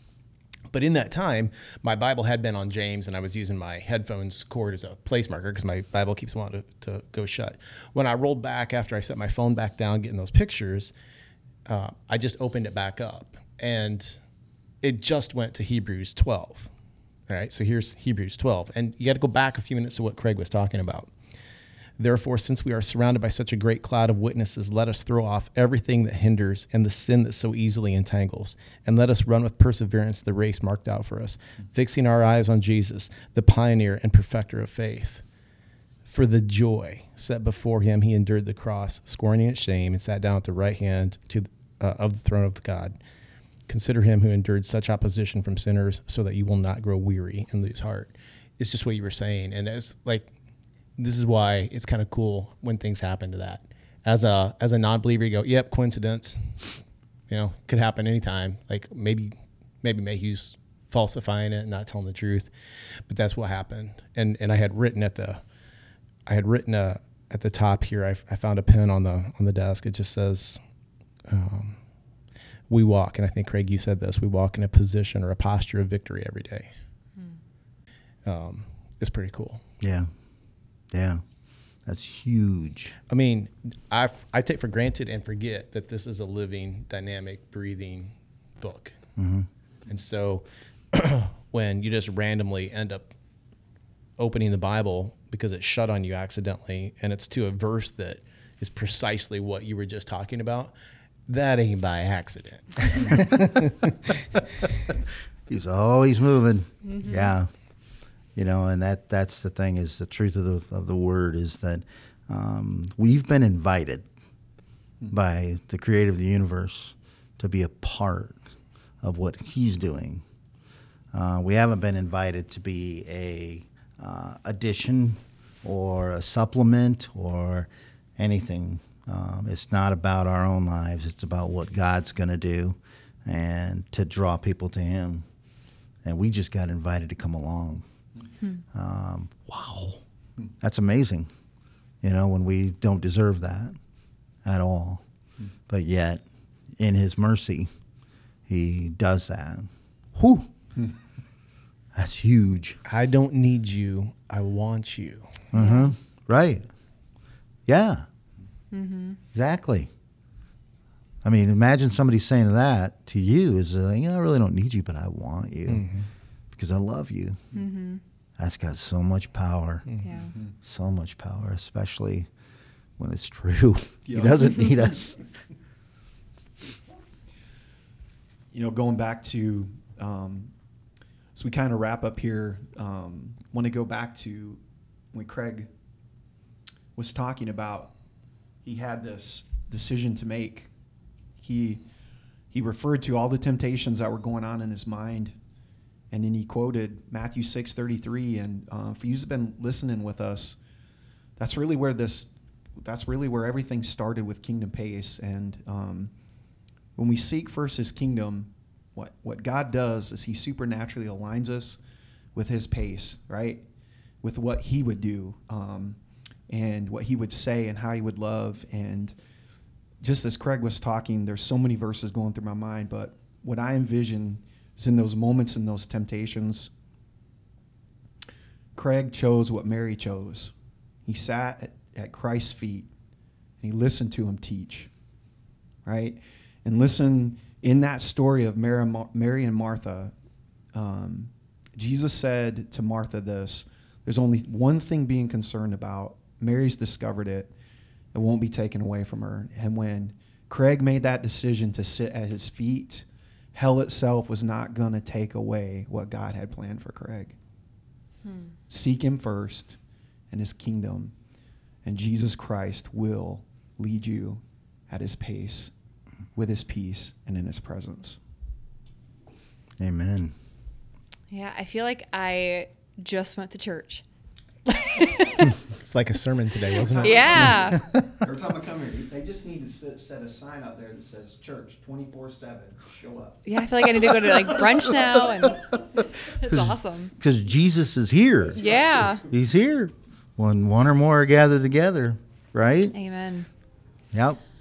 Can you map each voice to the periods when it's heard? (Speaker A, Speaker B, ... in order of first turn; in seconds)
Speaker A: 0.7-10.9, 11.7-14.2, 14.8-16.7, 17.3-21.1, 22.0-35.2, 36.0-43.0, 43.7-50.3, 51.0-56.8, 57.3-65.4, 66.3-70.6, 71.3-71.8, 72.7-76.7, 78.2-79.6, 83.1-89.0, 89.9-93.1, 94.2-100.7, 101.3-104.7, 152.9-155.4, 165.7-166.1, 275.6-277.6
Speaker B: 79.8-80.1, 80.9-81.2, 81.9-83.0, 89.2-89.5, 105.5-107.5, 108.3-114.1, 115.1-118.4, 119.0-120.2, 121.1-135.2, 136.0-137.8, 138.7-140.0, 140.6-141.3, 142.0-143.8, 144.4-145.0, 145.7-146.2, 146.8-147.7, 148.5-150.5, 151.9-152.8, 155.5-156.7, 157.7-158.1, 159.3-159.9, 161.2-165.9, 166.5-167.4, 168.4-169.9, 170.6-172.3, 173.0-175.2, 269.8-270.3, 277.4-278.1, 286.4-292.9, 294.1-294.4
Speaker C: 106.8-107.3, 155.5-155.9, 158.7-159.2, 167.5-168.0, 170.0-170.3, 258.2-258.5, 271.3-274.0, 274.6-275.6, 277.0-277.8, 283.4-285.7, 286.3-287.1, 288.6-289.2, 292.9-293.5
Speaker D: 174.1-175.0, 178.5-180.5, 181.3-184.6, 185.1-185.7, 186.9-187.9, 188.6-190.7, 191.4-191.8, 192.5-195.3, 196.1-200.6, 201.4-206.1, 206.9-211.8, 212.3-213.7, 214.2-219.2, 220.0-226.7, 228.7-230.5, 231.1-232.9, 233.6-234.9, 235.8-240.1, 240.7-247.5, 248.1-257.4, 258.7-259.8, 260.3-261.1, 261.8-265.7, 266.3-268.2, 276.8-283.4, 284.0-284.7